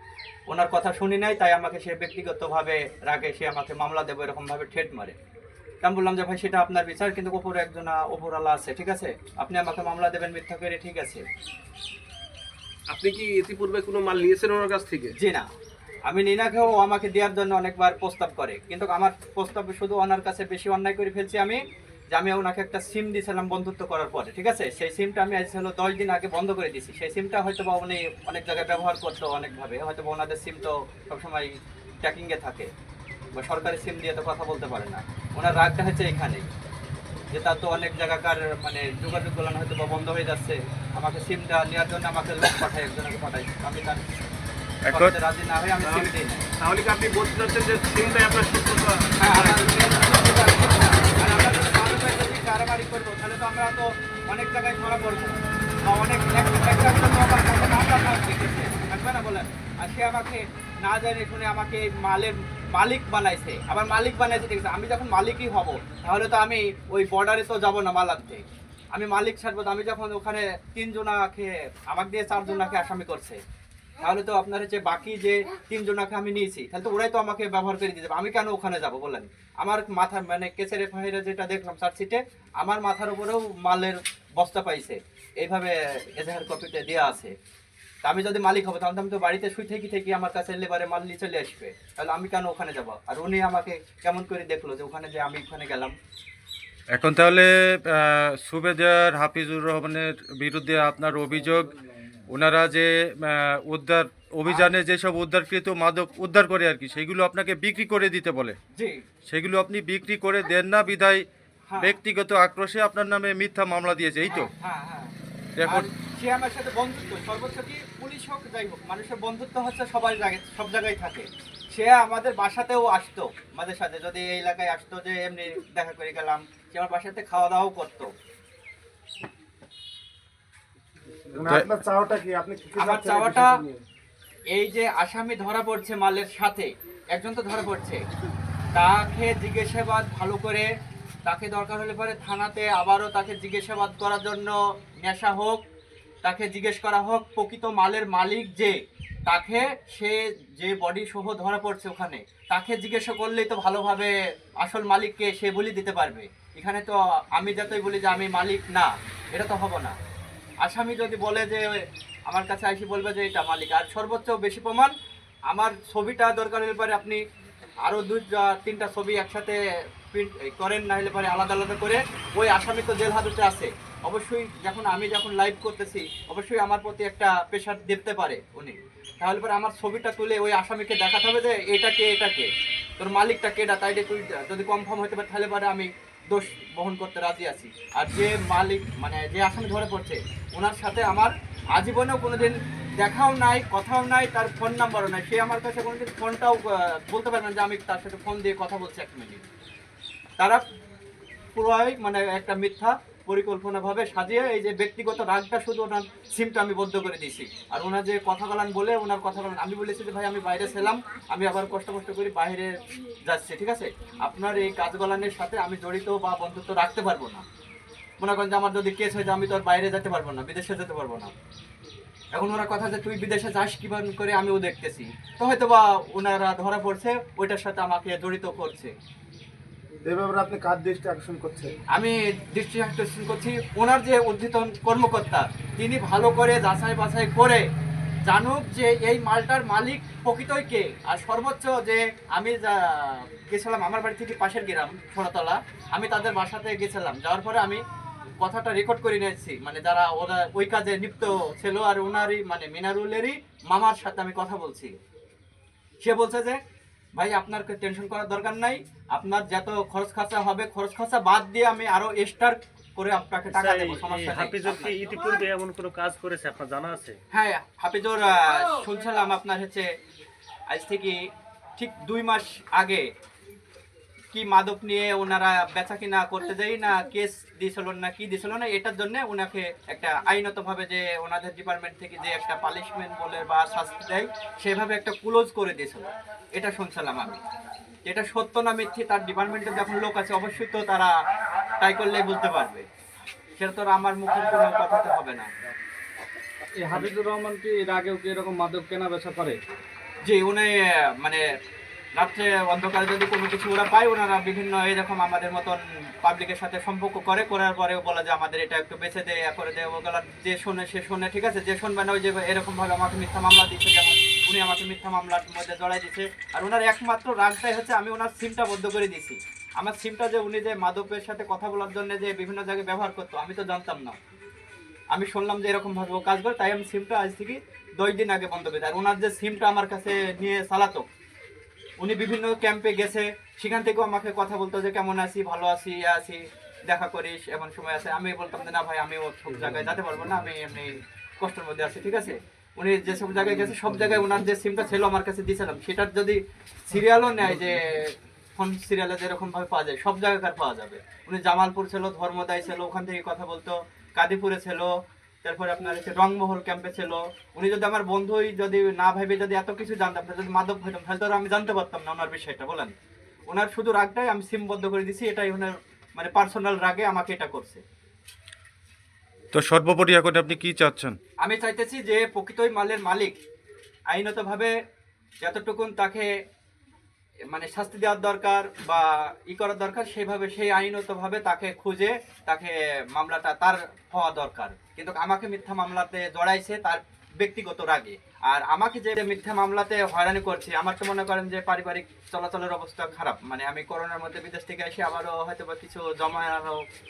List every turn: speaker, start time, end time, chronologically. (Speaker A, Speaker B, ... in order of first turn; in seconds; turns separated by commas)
Speaker A: 0.5-5.1, Speaker A: 5.8-11.2, Speaker B: 12.9-15.1, Speaker A: 15.2-15.5, Speaker A: 16.1-21.6, Speaker A: 22.1-31.5, Speaker A: 32.0-32.7, Speaker A: 33.3-36.5, Speaker A: 37.3-44.0, Speaker C: 44.8-45.1, Speaker A: 44.9-46.4, Speaker B: 45.8-49.8, Speaker A: 49.2-73.4, Speaker A: 74.0-87.3, Speaker A: 88.0-95.9, Speaker C: 96.9-101.7, Speaker C: 102.3-108.5, Speaker A: 104.4-104.7, Speaker A: 108.7-109.0, Speaker C: 109.3-111.2, Speaker A: 111.7-112.0, Speaker C: 111.8-114.5, Speaker A: 114.3-115.1, Speaker C: 115.6-115.9, Speaker A: 115.7-128.1, Speaker D: 131.3-133.8, Speaker A: 132.8-133.6, Speaker A: 134.5-138.0, Speaker A: 138.7-140.7, Speaker A: 141.2-145.6, Speaker A: 146.2-159.9, Speaker A: 160.6-164.9, Speaker A: 165.5-167.2, Speaker A: 167.8-169.6, Speaker A: 170.1-199.4, Speaker A: 201.5-217.4, Speaker A: 218.2-221.3, Speaker A: 222.3-228.9, Speaker D: 230.0-231.7, Speaker A: 231.9-237.6, Speaker A: 238.2-247.8, Speaker A: 248.4-255.0, Speaker A: 256.0-256.6, Speaker A: 257.1-264.9, Speaker E: 263.5-267.2, Speaker A: 267.3-269.9, Speaker A: 270.7-271.2, Speaker A: 271.8-273.1, Speaker A: 274.3-287.4, Speaker A: 288.1-291.1, Speaker A: 291.8-292.8, Speaker A: 293.6-295.5, Speaker F: 296.8-299.6, Speaker A: 300.2-301.4, Speaker A: 302.2-324.2, Speaker A: 325.1-331.1, Speaker A: 332.0-354.9, Speaker A: 355.4-362.9, Speaker A: 363.5-367.8, Speaker C: 369.5-371.2, Speaker A: 371.4-373.4, Speaker A: 374.1-374.7, Speaker A: 375.4-376.3, Speaker A: 377.5-396.8